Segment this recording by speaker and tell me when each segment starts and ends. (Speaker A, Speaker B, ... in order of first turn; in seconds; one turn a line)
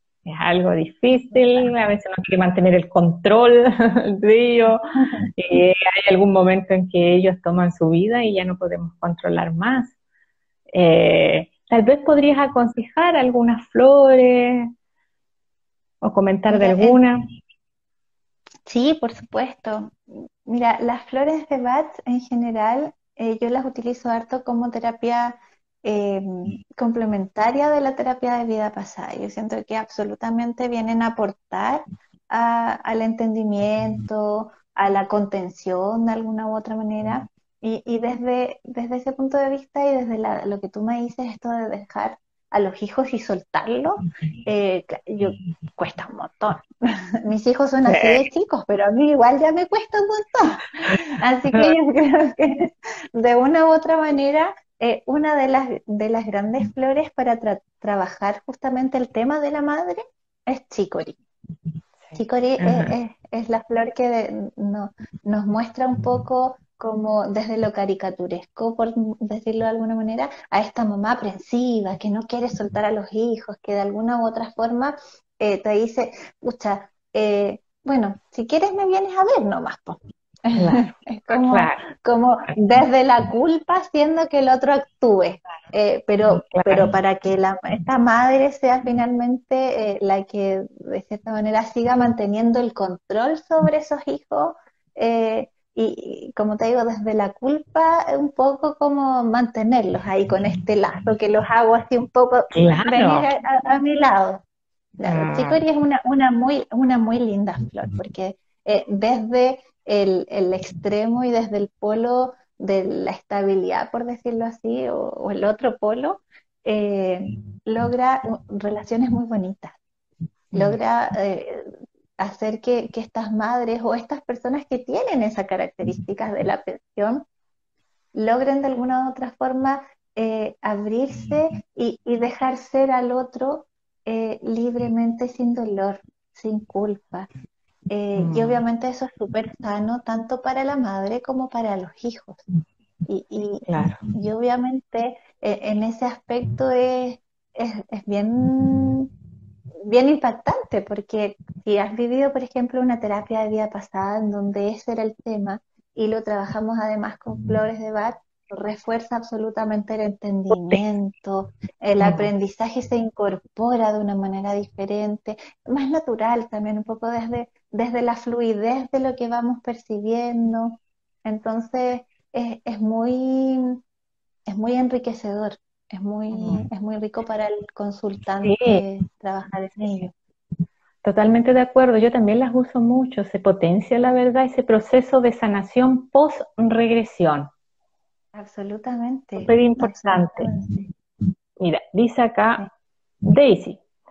Speaker A: 0.2-4.8
Speaker A: 5.3-9.9
Speaker A: 10.7-14.7
Speaker A: 16.0-17.2
Speaker B: 16.5-17.0
Speaker B: 18.7-61.2
Speaker A: 47.8-48.2
Speaker A: 62.1-62.9
Speaker B: 62.1-104.4
Speaker A: 80.5-81.8
Speaker A: 86.3-86.9
Speaker A: 102.5-103.3
Speaker B: 105.0-119.8
Speaker A: 105.1-105.6
Speaker A: 120.5-120.8
Speaker B: 120.5-127.2
Speaker B: 128.1-137.3
Speaker B: 137.9-142.4
Speaker A: 138.2-138.6
Speaker B: 143.1-149.1
Speaker A: 143.7-144.0
Speaker B: 149.8-173.8
Speaker A: 160.5-160.8
Speaker A: 162.0-162.3
Speaker B: 174.5-180.1
Speaker A: 176.3-176.6
Speaker A: 178.4-178.8
Speaker A: 181.0-187.5
Speaker B: 188.3-190.8
Speaker A: 189.4-190.5
Speaker A: 191.6-192.6
Speaker A: 193.2-193.8